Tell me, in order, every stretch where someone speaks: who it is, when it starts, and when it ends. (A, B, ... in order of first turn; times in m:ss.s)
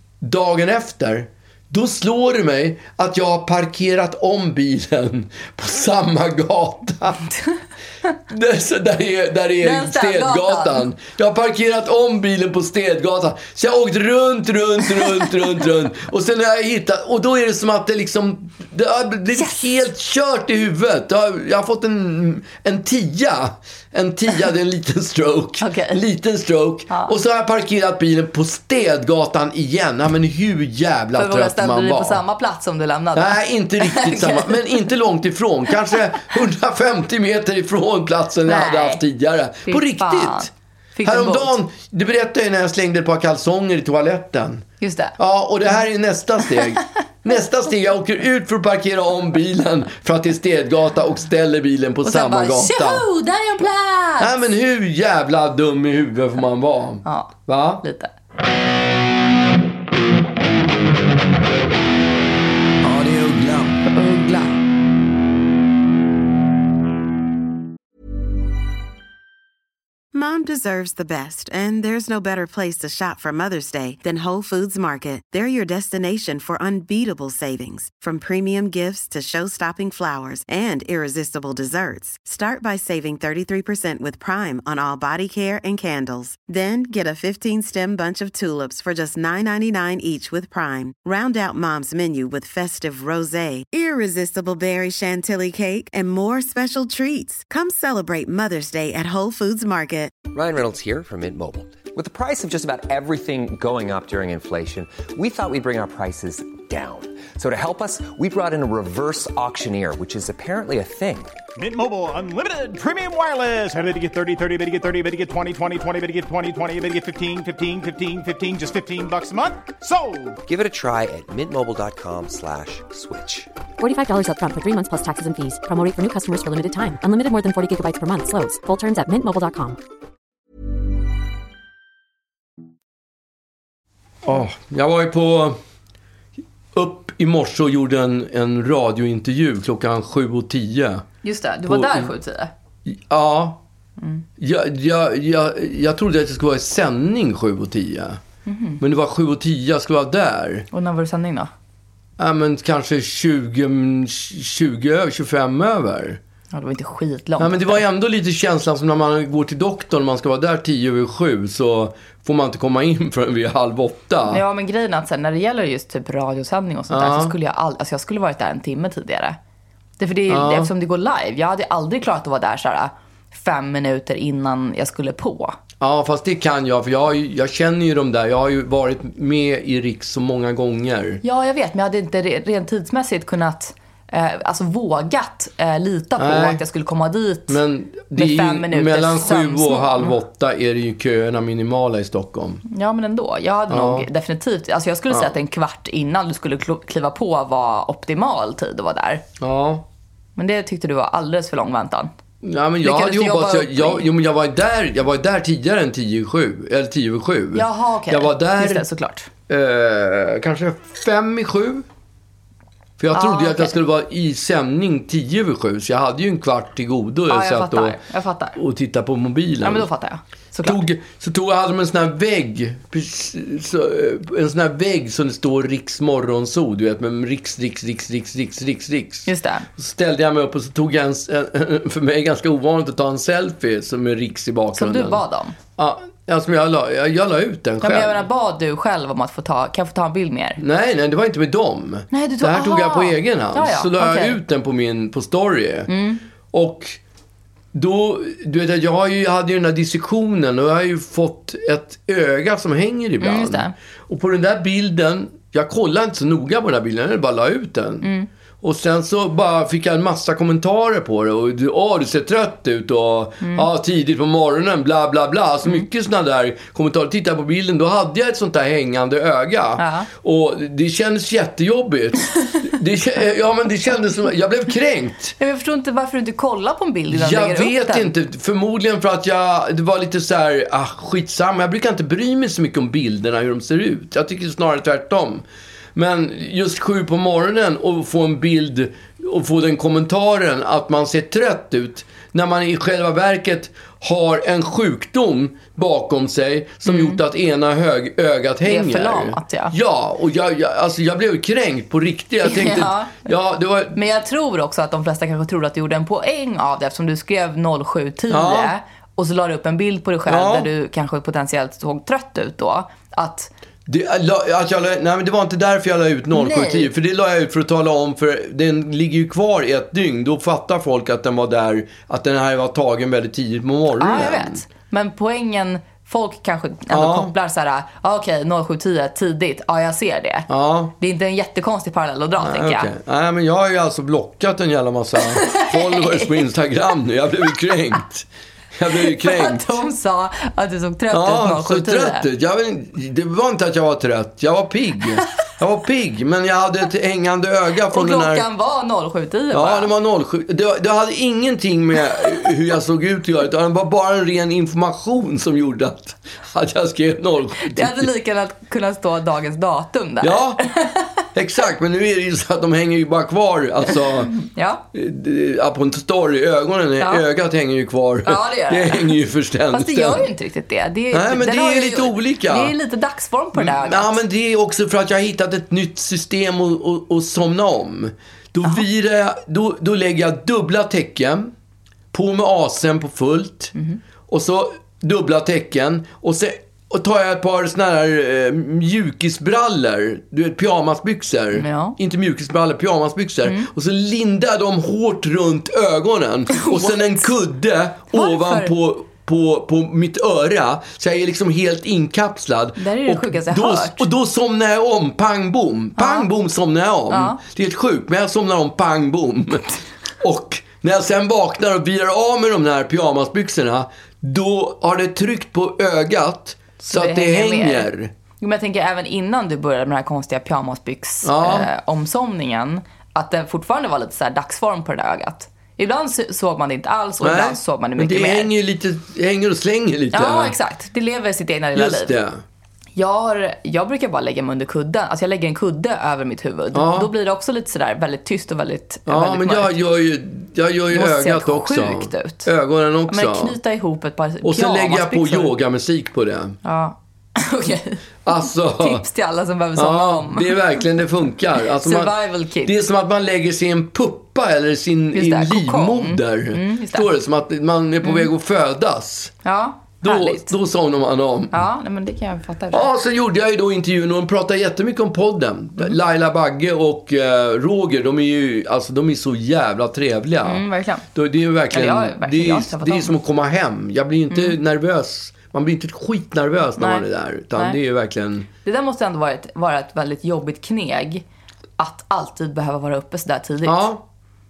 0:00.2-0:07.2 A
0:08.3-0:32.2 A
0:09.6-0:10.9 B
0:19.3-0:19.7 B
0:25.6-0:26.0 B
0:31.2-0:34.9 B
0:33.1-0:40.5 A
0:38.4-0:39.0 B
0:39.7-0:41.5 B
0:41.0-0:44.6 A
0:44.8-0:45.2 B
0:45.2-0:53.0 A
0:52.0-0:54.5 B
0:54.2-0:57.8 A
0:57.0-0:58.1 B
1:02.8-1:03.8 A
1:03.9-1:04.6 B
1:10.1-1:40.2 C
1:40.3-1:51.4 D
1:51.6-2:00.4 E
2:00.5-2:03.5 D
2:03.8-2:09.8 F
2:14.2-2:15.6 A
2:16.8-2:21.0 A
2:21.2-2:22.5 B
2:21.7-2:22.1 A
2:22.8-2:23.6 A
2:24.4-2:28.2 A
2:28.5-2:28.8 B
2:28.8-2:30.7 A
2:30.7-2:31.5 B
2:32.2-2:36.2 A
2:36.5-2:37.8 B
2:37.4-2:44.4 A
2:44.3-2:49.4 B
2:46.9-2:47.3 A
2:50.0-2:55.6 B
2:50.3-2:50.7 A
2:55.8-3:01.2 A
3:01.2-3:07.6 B
3:06.2-3:06.6 A
3:07.5-3:12.6 A
3:08.2-3:10.2 B
3:12.6-3:19.2 B
3:13.7-3:14.1 A
3:19.4-3:19.8 A
3:20.4-3:22.1 B
3:22.4-3:28.8 A
3:22.8-3:24.1 B
3:27.5-3:29.3 B
3:29.5-3:31.8 A
3:33.0-3:38.0 A
3:33.1-3:33.8 B
3:37.3-3:38.6 B
3:38.6-3:39.9 A
3:39.6-3:40.9 B
3:40.6-3:55.2 A
3:49.2-3:49.7 B
3:54.8-3:55.6 B
3:55.8-3:58.2 A
3:57.8-4:00.6 B
4:00.6-4:05.9 A
4:02.1-4:04.4 B
4:05.9-4:06.2 B
4:06.5-4:07.0 A
4:07.7-4:18.1 A
4:13.2-4:13.7 B
4:18.0-4:18.3 B
4:18.6-4:35.4 A
4:23.4-4:23.7 B
4:29.8-4:30.1 B
4:35.4-4:38.1 B
4:37.1-4:45.4 A
4:45.9-5:04.0 A
4:56.8-4:57.2 B
4:58.6-4:59.7 B
5:02.4-5:03.3 B
5:03.9-5:13.5 B
5:08.3-5:08.7 A
5:10.3-5:10.7 A
5:13.9-5:24.6 A
5:16.3-5:16.9 B
5:24.0-5:30.5 B
5:26.9-5:27.3 A
5:30.5-5:30.9 A
5:31.0-5:32.9 B
5:32.4-5:39.8 A
5:35.2-5:36.5 B
5:38.9-5:42.2 B
5:41.1-5:48.4 A
5:47.9-5:49.9 B
5:49.5-5:58.1 A
5:57.6-6:01.1 B
6:00.2-6:00.6 A
6:01.3-6:04.3 A
6:03.9-6:04.8 B
6:04.9-6:10.3 A
6:07.0-6:07.2 B
6:08.2-6:09.2 B
6:09.7-6:14.2 B
6:11.1-6:12.7 A
6:13.5-6:21.5 A
6:22.1-6:23.8 A
6:24.3-6:58.1 A
6:31.6-6:32.0 B
6:36.5-6:37.3 B
6:38.1-6:38.7 B
6:42.8-6:44.0 B
6:46.0-6:46.3 B
6:47.1-6:47.4 B
6:56.8-7:08.5 B
7:01.2-7:01.7 A
7:07.2-7:10.6 A
7:10.1-7:12.1 B
7:11.8-7:12.4 A
7:13.0-7:19.8 B
7:16.7-7:17.1 A
7:19.1-7:23.6 A
7:20.9-7:22.5 B
7:23.1-7:25.5 B
7:24.4-7:26.6 A
7:26.6-7:30.8 B
7:28.2-7:29.0 A
7:29.8-7:39.3 A
7:31.6-7:32.7 B
7:35.1-7:37.1 B
7:38.0-7:38.3 B
7:39.4-7:40.5 B
7:40.0-7:41.6 A
7:41.5-7:42.9 B
7:42.7-7:58.5 A
7:50.4-7:51.1 B
7:51.7-7:53.1 B
7:54.3-7:54.6 B
7:56.8-7:57.8 B
7:58.6-8:01.2 B
8:01.8-8:03.8 B
8:03.6-8:04.0 A